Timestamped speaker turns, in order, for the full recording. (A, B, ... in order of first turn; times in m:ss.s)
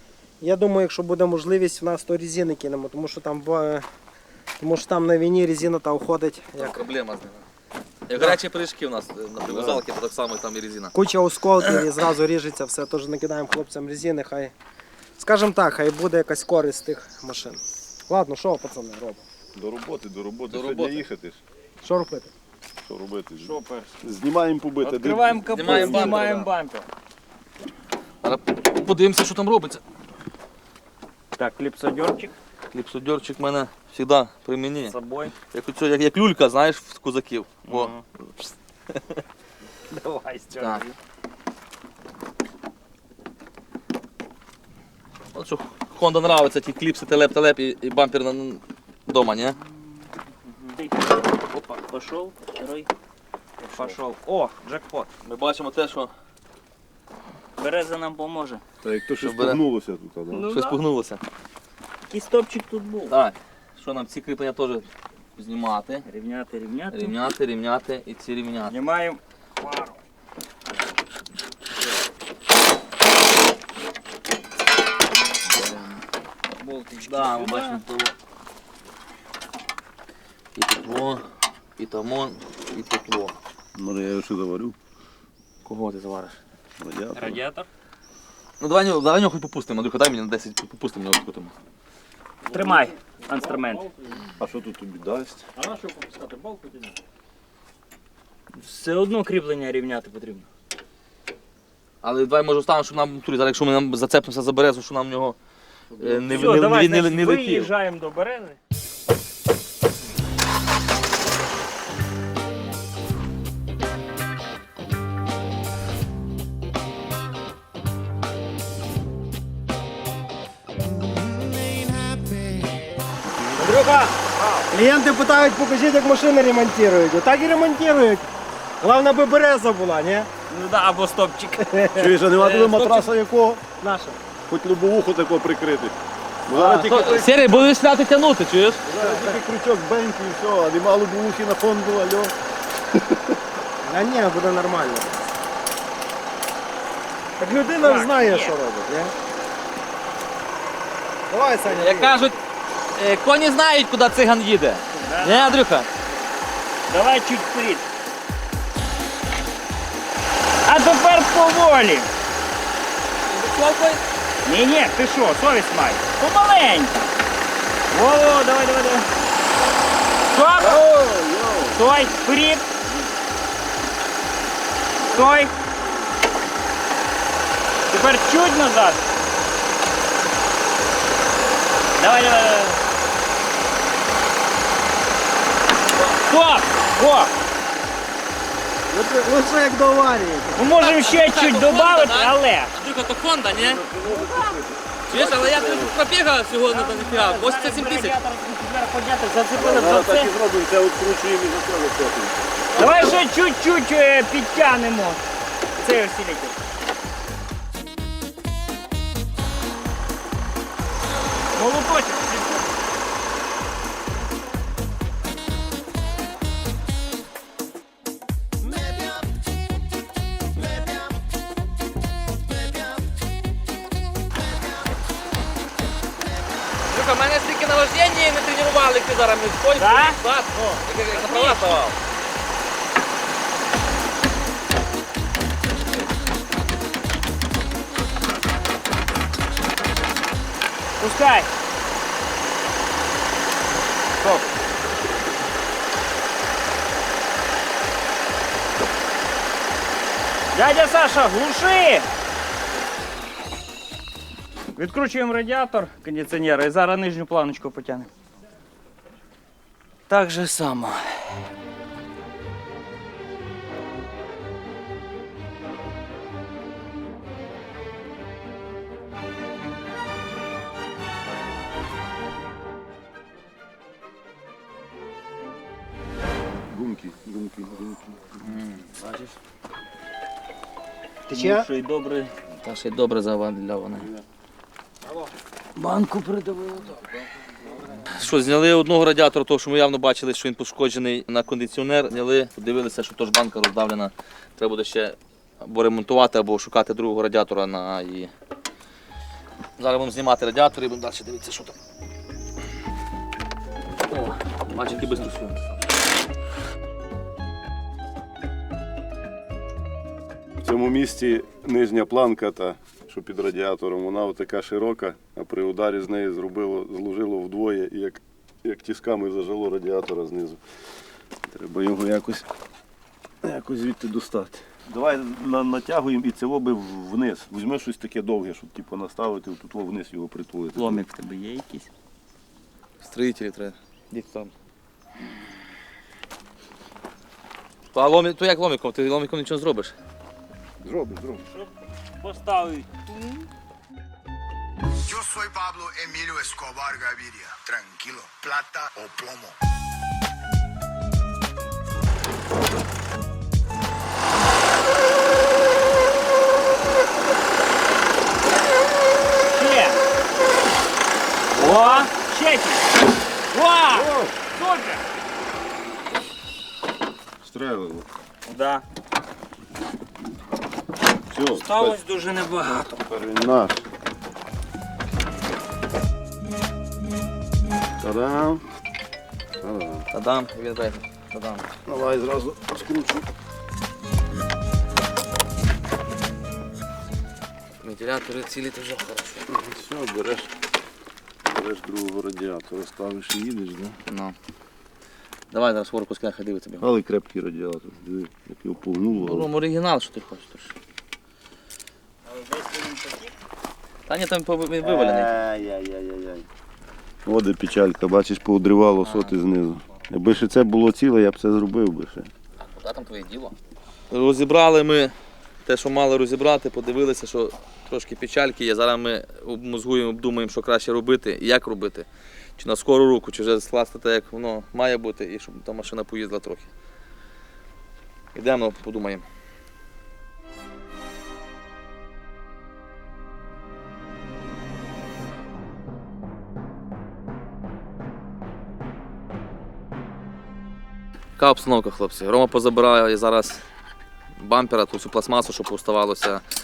0:00.4-0:03.9 A
0:04.6-0:06.8 A
0:06.6-0:07.4 B
0:08.1-0:10.9 B
0:09.4-0:09.8 C
0:10.9-0:14.5 A
0:15.2-0:19.2 A
0:19.6-0:21.4 C
0:20.5-0:21.0 B
0:21.8-0:22.3 A
0:22.8-0:26.3 C
0:23.4-0:23.9 D
0:24.8-0:26.9 D
0:25.5-0:26.5 B
0:28.2-0:29.8 B
0:31.4-0:32.3 D
0:32.7-0:35.0 B
0:34.9-0:35.4 D
0:35.5-0:39.0 B
0:37.6-0:38.0 D
0:39.9-0:41.0 D
0:40.6-0:40.8 B
0:45.3-0:49.6 B
0:50.5-0:51.0 D
0:51.5-0:52.9 D
0:53.6-0:55.1 D
0:55.2-0:56.1 B
0:57.6-0:58.6 D
0:58.8-1:00.5 C
0:59.2-0:59.6 B
1:00.3-1:00.8 D
1:00.5-1:01.2 B
1:02.1-1:03.2 D
1:03.1-1:06.0 B
1:06.0-1:07.2 D
1:06.9-1:08.7 B
1:08.7-1:10.0 D
1:15.5-1:15.9 B
1:16.6-1:17.8 D
1:17.0-1:18.1 B
1:20.6-1:21.2 B
1:21.8-1:23.4 B
1:23.8-1:24.8 C
1:25.6-1:26.4 B
1:26.8-1:27.4 C
1:27.2-1:27.7 D
1:28.6-1:31.5 B
1:32.5-1:33.9 D
1:34.4-1:35.4 C
1:35.6-1:36.9 D
1:38.5-1:40.5 D
1:42.0-1:45.4 B
1:46.0-1:47.7 B
1:46.3-1:48.6 D
2:03.6-2:08.3 A
2:08.8-2:10.3 A
2:10.5-2:11.6 D
2:11.6-2:12.2 A
2:12.0-2:13.6 C
2:12.4-2:13.1 D
2:13.8-2:14.2 A
2:14.5-2:16.0 C
2:16.5-2:17.4 C
2:16.5-2:17.1 A
2:16.8-2:18.8 B
2:18.9-2:22.3 C
2:18.9-2:19.4 A
2:23.8-2:25.3 A
2:27.4-2:29.1 A
2:27.8-2:28.5 D
2:31.3-2:32.4 A
2:31.7-2:32.4 B
2:33.0-2:35.9 B
2:35.0-2:35.6 D
2:36.9-2:37.9 D
2:40.6-2:42.1 D
2:43.3-2:44.0 B
2:44.4-2:47.0 D
2:47.9-2:49.1 D
2:50.3-2:50.7 D
2:50.6-2:51.8 C
2:51.7-2:52.7 D
2:55.1-2:55.5 D
2:57.9-2:59.0 D
3:02.0-3:02.8 D
3:06.2-3:07.3 D
3:08.9-3:10.7 A
3:10.6-3:12.8 D
3:10.8-3:13.8 B
3:13.5-3:16.0 C
3:14.2-3:14.5 D
3:15.1-3:18.2 B
3:16.7-3:20.3 D
3:19.6-3:23.1 C
3:22.8-3:25.2 D
3:22.8-3:23.1 B
3:25.8-3:26.6 D
3:31.5-3:32.7 D
3:46.9-3:52.0 B
3:49.8-3:50.2 D
4:01.0-4:01.5 D
4:04.2-4:04.5 D
4:10.5-4:12.1 D
4:14.8-4:18.1 D
4:20.1-4:21.2 D
4:36.7-4:38.3 C
4:38.4-4:39.3 B
4:41.3-4:41.7 A
4:41.3-4:42.3 D
4:42.6-4:44.1 B
4:45.8-4:47.1 D
4:48.1-4:58.3 B
4:59.8-5:01.8 B
5:04.1-5:05.6 B
5:10.6-5:20.6 C
5:21.5-5:22.5 C
5:23.4-5:31.0 C
5:30.8-5:31.9 D
5:33.0-5:34.5 B
5:37.9-5:39.9 B
5:40.8-5:41.4 C
5:41.5-5:43.5 D
5:45.1-5:49.5 E
5:59.5-6:00.0 D
6:01.6-6:02.9 D
6:03.5-6:05.0 D
6:03.9-6:04.3 C
6:07.4-6:08.0 C
6:08.5-6:08.8 D
6:11.3-6:12.0 C
6:11.6-6:13.0 D
6:12.9-6:13.8 C
6:18.0-6:18.6 C
6:19.6-6:20.1 C
6:20.1-6:21.7 B
6:21.9-6:23.2 C
6:27.8-6:29.5 B
6:29.5-6:30.5 C
6:31.5-6:34.0 C
6:34.1-6:34.4 B
6:35.5-6:36.9 B
6:36.8-6:39.5 C
6:39.2-6:40.7 B
6:42.3-6:43.3 D
6:44.1-6:45.3 B
6:44.8-6:46.4 C
6:47.2-6:52.3 C
6:49.0-6:49.3 B
6:52.6-6:53.6 B
6:54.1-6:55.1 B
6:55.7-7:02.1 B
7:02.6-7:06.7 B
7:08.4-7:09.2 B
7:21.4-7:23.6 B
7:24.4-7:26.4 B